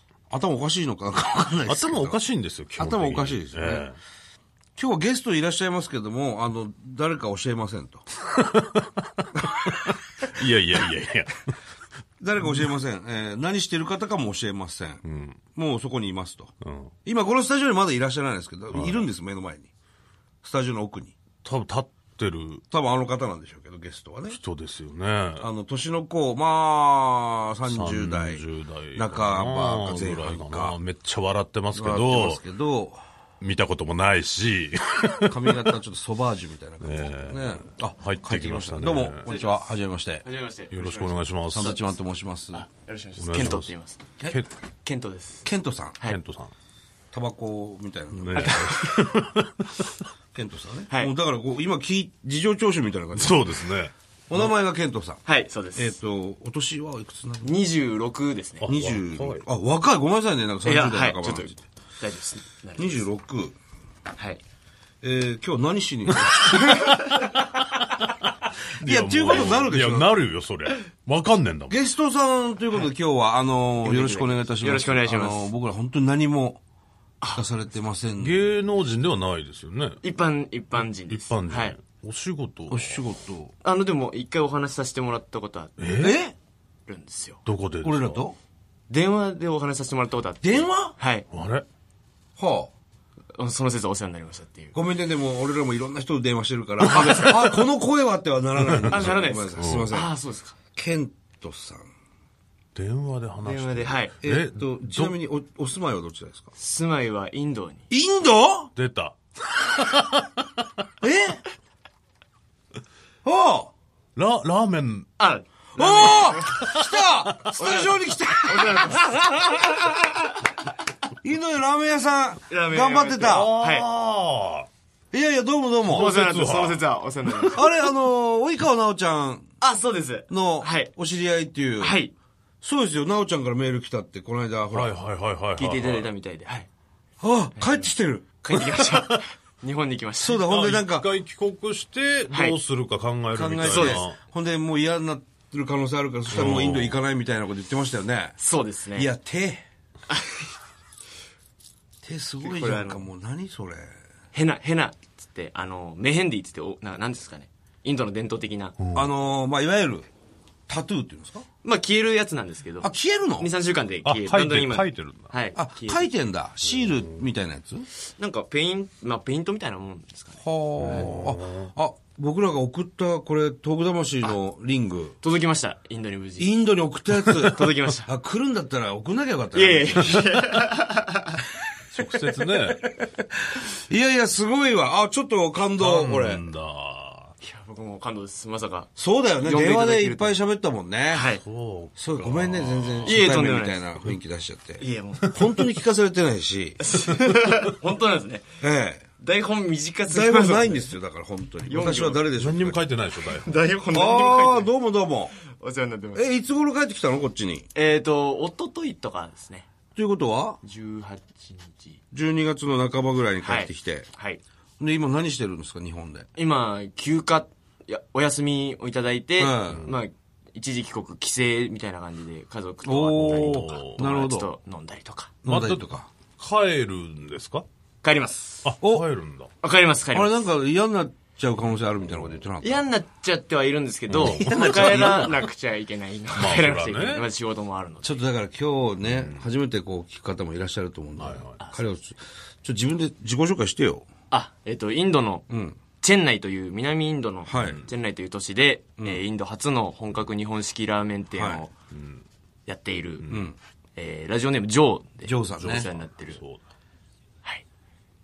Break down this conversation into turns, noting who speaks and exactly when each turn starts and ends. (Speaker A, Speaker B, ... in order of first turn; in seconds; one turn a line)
Speaker A: 0.3-2.2
Speaker B: 1.7-4.0
Speaker A: 2.8-3.9
Speaker A: 4.8-8.1
Speaker B: 8.3-11.6
Speaker A: 12.2-15.0
Speaker B: 15.0-15.4
Speaker A: 15.5-16.5
Speaker B: 16.6-16.9
Speaker A: 17.1-19.7
Speaker B: 18.7-19.1
Speaker A: 20.4-21.2
Speaker B: 21.4-22.6
Speaker A: 22.7-24.4
Speaker B: 24.3-25.5
Speaker A: 25.4-30.8
Speaker B: 27.7-32.4
Speaker A: 31.7-33.0
Speaker B: 33.4-35.7
Speaker A: 35.3-40.2
Speaker B: 36.8-39.3
Speaker C: 39.2-39.6
Speaker C: 40.2-41.9
Speaker B: 40.7-41.8
Speaker A: 41.5-42.7
Speaker C: 42.5-44.0
Speaker B: 43.2-43.7
Speaker C: 44.8-45.5
Speaker A: 45.4-46.0
Speaker B: 46.1-46.5
Speaker A: 47.1-48.6
Speaker B: 48.1-50.0
Speaker C: 48.4-49.0
Speaker A: 50.3-53.7
Speaker B: 53.1-54.5
Speaker A: 54.3-57.5
Speaker C: 55.2-56.0
Speaker C: 57.4-58.7
Speaker B: 58.6-59.5
Speaker A: 58.7-61.6
Speaker C: 60.6-63.0
Speaker A: 62.8-63.6
Speaker C: 64.2-64.4
Speaker A: 65.0-66.8
Speaker B: 67.8-68.1
Speaker B: 68.8-71.8
Speaker A: 68.8-70.1
Speaker A: 71.7-76.6
Speaker C: 73.8-75.5
Speaker A: 77.3-78.5
Speaker B: 78.2-80.0
Speaker C: 80.0-81.8
Speaker B: 81.1-83.0
Speaker A: 82.7-83.5
Speaker C: 83.6-85.7
Speaker B: 85.8-86.2
Speaker A: 86.0-86.3
Speaker C: 86.9-87.4
Speaker B: 87.5-88.2
Speaker A: 87.8-88.4
Speaker C: 88.9-91.3
Speaker A: 90.4-91.0
Speaker B: 91.3-91.7
Speaker A: 92.4-92.7
Speaker C: 93.4-94.7
Speaker A: 94.7-100.1
Speaker C: 96.8-97.5
Speaker B: 98.7-99.9
Speaker C: 98.9-100.6
Speaker A: 100.8-101.9
Speaker B: 102.8-105.2
Speaker C: 103.4-104.1
Speaker A: 104.2-106.5
Speaker C: 106.6-107.8
Speaker A: 107.9-108.7
Speaker B: 108.8-110.5
Speaker A: 111.0-111.4
Speaker A: 113.2-113.7
Speaker B: 114.2-115.1
Speaker C: 115.2-116.6
Speaker A: 115.8-120.4
Speaker B: 116.5-117.5
Speaker C: 117.6-119.7
Speaker A: 121.2-123.5
Speaker C: 122.5-123.9
Speaker B: 123.2-124.7
Speaker A: 125.1-126.6
Speaker C: 125.8-127.7
Speaker B: 125.9-127.6
Speaker A: 127.5-129.5
Speaker C: 129.6-130.9
Speaker A: 130.3-132.0
Speaker C: 131.8-132.1
Speaker A: 132.6-134.9
Speaker B: 134.7-136.1
Speaker C: 135.6-136.7
Speaker A: 137.2-138.3
Speaker C: 137.6-137.9
Speaker C: 138.4-140.4
Speaker A: 140.2-141.1
Speaker B: 140.3-144.2
Speaker C: 142.3-142.6
Speaker A: 143.3-148.4
Speaker C: 143.6-144.1
Speaker B: 146.3-147.0
Speaker C: 148.4-149.1
Speaker A: 148.9-149.7
Speaker C: 150.1-150.5
Speaker A: 152.0-153.9
Speaker C: 152.4-153.1
Speaker C: 154.3-158.8
Speaker B: 158.8-159.1
Speaker A: 158.9-160.1
Speaker A: 160.7-161.4
Speaker C: 161.6-166.1
Speaker A: 162.8-163.5
Speaker B: 164.1-165.3
Speaker A: 165.6-167.9
Speaker B: 166.7-167.1
Speaker C: 168.1-171.0
Speaker A: 170.4-175.2
Speaker B: 170.8-171.7
Speaker C: 175.2-176.6
Speaker A: 176.4-180.3
Speaker C: 177.2-178.1
Speaker C: 179.5-181.4
Speaker B: 181.9-182.8
Speaker A: 183.5-186.5
Speaker B: 185.8-187.3
Speaker C: 187.4-190.4
Speaker A: 189.0-191.3
Speaker C: 191.1-191.4
Speaker B: 191.4-193.3
Speaker A: 192.0-196.8
Speaker C: 193.1-193.8
Speaker C: 194.8-195.6
Speaker C: 196.8-198.5
Speaker A: 198.6-199.1
Speaker C: 199.2-200.9
Speaker A: 200.1-202.8
Speaker C: 201.7-202.3
Speaker B: 202.4-203.6
Speaker C: 203.2-204.7
Speaker A: 203.9-205.3
Speaker C: 205.5-206.2
Speaker A: 206.2-207.7
Speaker C: 207.8-209.7
Speaker A: 210.0-210.6
Speaker C: 210.6-212.0
Speaker A: 212.1-214.1
Speaker C: 213.4-214.4
Speaker A: 214.8-216.3
Speaker C: 216.4-225.3
Speaker A: 219.4-219.9
Speaker A: 222.8-224.5
Speaker B: 223.2-224.0
Speaker A: 225.4-226.1
Speaker B: 225.5-227.7
Speaker C: 228.0-228.7
Speaker B: 228.6-229.5
Speaker A: 228.8-229.1
Speaker C: 229.6-230.5
Speaker A: 230.1-232.9
Speaker C: 232.6-238.2
Speaker B: 234.1-235.3
Speaker A: 234.2-235.4
Speaker B: 236.3-237.3
Speaker A: 238.0-244.1
Speaker B: 239.0-239.4
Speaker B: 241.2-241.6
Speaker C: 241.6-241.9
Speaker C: 244.3-245.5
Speaker A: 245.5-245.8
Speaker C: 246.0-251.7
Speaker A: 247.5-247.9
Speaker B: 247.5-247.9
Speaker A: 251.3-251.6
Speaker B: 251.9-252.2
Speaker C: 252.7-253.4
Speaker A: 253.3-253.6
Speaker C: 254.0-256.4
Speaker A: 255.2-255.9
Speaker B: 255.6-256.6